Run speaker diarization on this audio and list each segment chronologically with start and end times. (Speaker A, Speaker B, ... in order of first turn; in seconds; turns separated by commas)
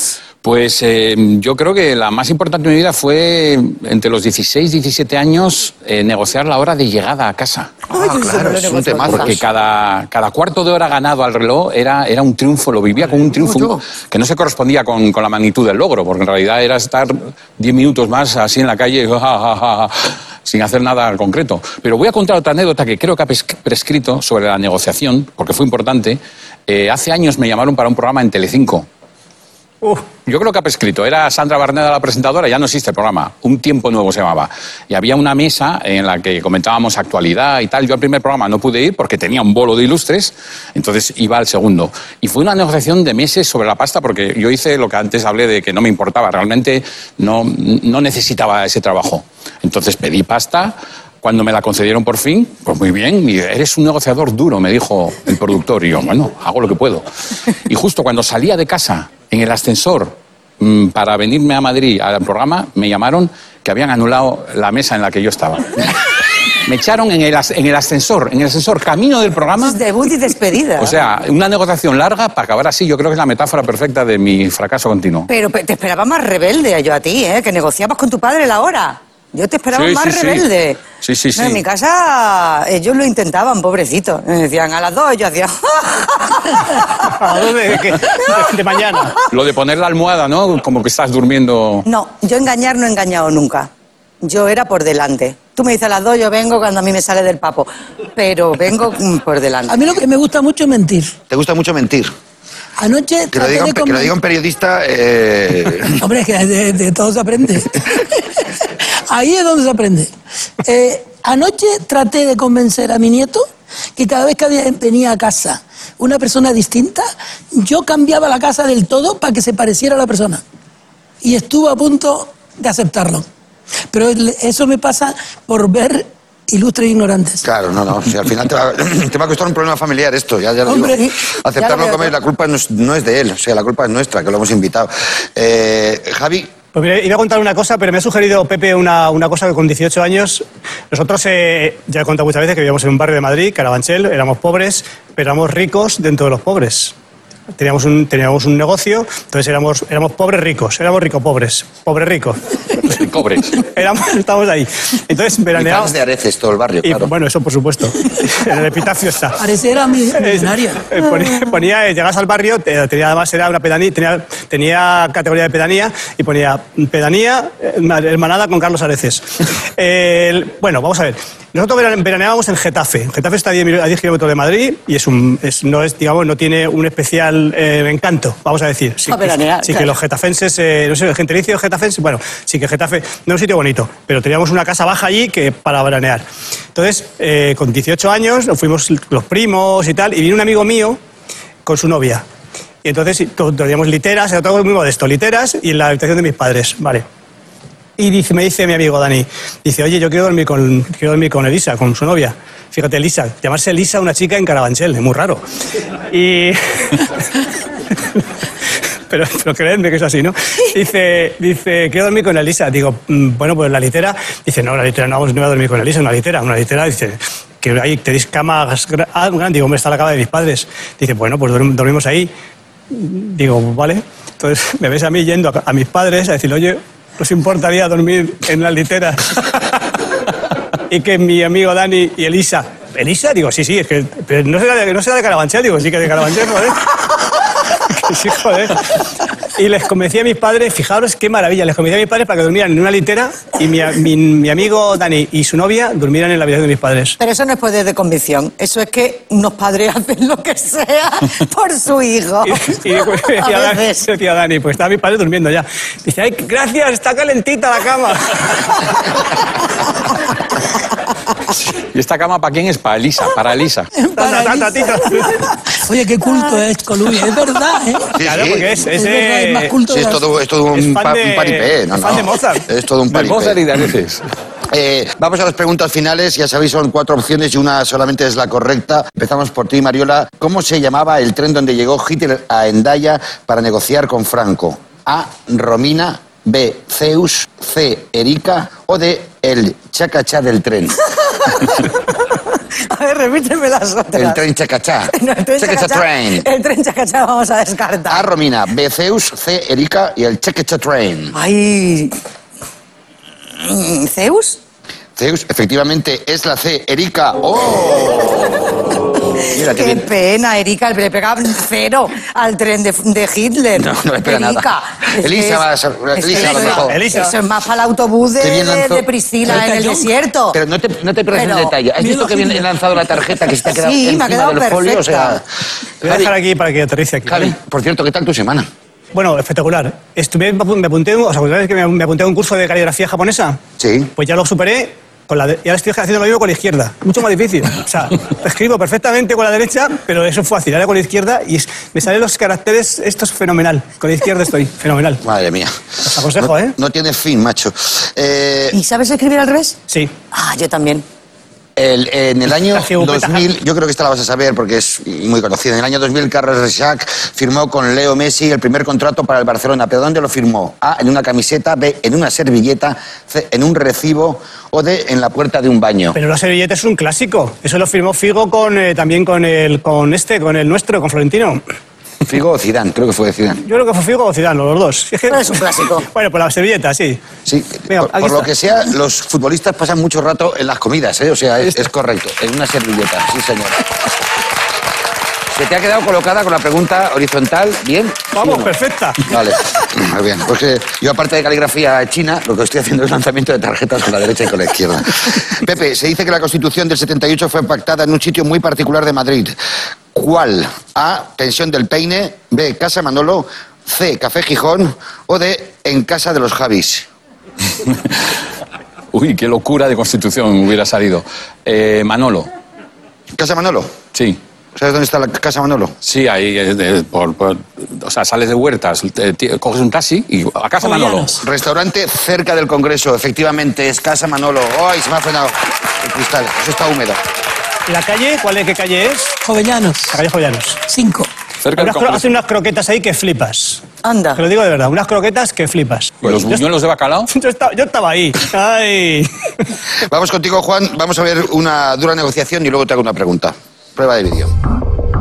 Speaker A: 0.4-7.7, Speaker B: 7.9-9.4, Speaker C: 7.9-9.4, Speaker A: 9.1-28.9, Speaker B: 13.4-13.8, Speaker D: 29.8-30.1, Speaker A: 30.2-57.0, Speaker A: 57.7-69.8, Speaker B: 69.6-71.0, Speaker A: 70.8-75.3, Speaker B: 75.3-80.8, Speaker A: 79.7-80.5, Speaker A: 81.0-81.6, Speaker B: 81.3-87.1, Speaker D: 87.0-89.2, Speaker A: 89.3-91.8, Speaker B: 91.9-93.7, Speaker B: 94.2-99.8, Speaker E: 99.7-101.2, Speaker C: 101.3-102.1, Speaker E: 102.8-104.1, Speaker C: 103.3-106.0, Speaker E: 106.0-110.1, Speaker E: 110.6-120.4, Speaker E: 121.2-123.3, Speaker E: 123.9-127.5, Speaker C: 127.4-136.5, Speaker E: 130.7-131.1, Speaker B: 131.6-132.1, Speaker D: 136.7-146.9, Speaker D: 147.6-153.0, Speaker A: 152.8-153.6, Speaker D: 153.5-155.9, Speaker C: 155.5-157.1, Speaker D: 156.8-159.4, Speaker E: 159.4-160.9, Speaker D: 160.2-191.0, Speaker B: 179.1-179.9, Speaker D: 191.7-192.2, Speaker D: 192.8-197.1, Speaker D: 198.0-205.4, Speaker D: 206.1-207.4, Speaker D: 209.1-222.3, Speaker D: 222.9-229.6, Speaker D: 230.9-236.9, Speaker D: 237.7-239.0, Speaker D: 239.6-247.2, Speaker B: 247.2-254.1, Speaker D: 252.4-259.0, Speaker A: 261.8-263.9, Speaker E: 264.0-268.2, Speaker D: 264.2-265.4, Speaker C: 268.2-268.7, Speaker D: 268.2-269.8, Speaker E: 268.9-270.2, Speaker C: 269.9-273.8, Speaker D: 270.7-272.7, Speaker A: 273.1-274.2, Speaker C: 274.7-291.0, Speaker B: 291.2-294.4, Speaker C: 294.1-296.5, Speaker B: 295.1-298.3, Speaker C: 298.1-301.4, Speaker B: 301.3-302.2, Speaker B: 303.6-304.6, Speaker C: 305.2-308.8, Speaker B: 309.4-320.6, Speaker C: 309.5-310.1, Speaker C: 313.8-317.0, Speaker D: 316.4-317.3, Speaker C: 318.4-319.1, Speaker E: 319.6-320.1, Speaker C: 320.5-325.4, Speaker B: 321.3-321.8, Speaker E: 322.0-322.6, Speaker B: 323.7-325.4, Speaker D: 326.0-327.5, Speaker C: 326.0-326.3, Speaker C: 327.3-328.7, Speaker D: 329.1-333.6, Speaker C: 333.8-334.1, Speaker D: 334.2-345.2, Speaker C: 345.2-345.7, Speaker D: 346.1-346.8, Speaker C: 346.4-348.8, Speaker B: 348.7-349.8, Speaker B: 350.3-351.1, Speaker C: 351.8-366.2, Speaker D: 352.7-353.4, Speaker D: 366.1-371.6, Speaker C: 372.2-373.6, Speaker D: 373.6-377.2, Speaker B: 375.3-376.1, Speaker C: 377.5-383.9, Speaker D: 377.9-378.5, Speaker C: 385.5-388.7, Speaker D: 388.3-389.3, Speaker C: 389.2-399.6, Speaker C: 400.1-407.1, Speaker A: 407.9-408.2, Speaker A: 409.1-412.5, Speaker C: 413.4-413.9, Speaker A: 414.1-414.4, Speaker C: 414.8-415.9, Speaker A: 416.0-421.4, Speaker E: 420.8-421.4, Speaker C: 421.4-427.2, Speaker D: 427.9-429.4, Speaker E: 429.4-430.2, Speaker D: 430.1-430.8, Speaker E: 430.9-431.3, Speaker A: 431.6-432.3, Speaker D: 431.8-433.8, Speaker B: 434.0-434.4, Speaker D: 434.4-436.6, Speaker A: 436.2-437.3, Speaker D: 437.3-439.3, Speaker C: 440.1-444.5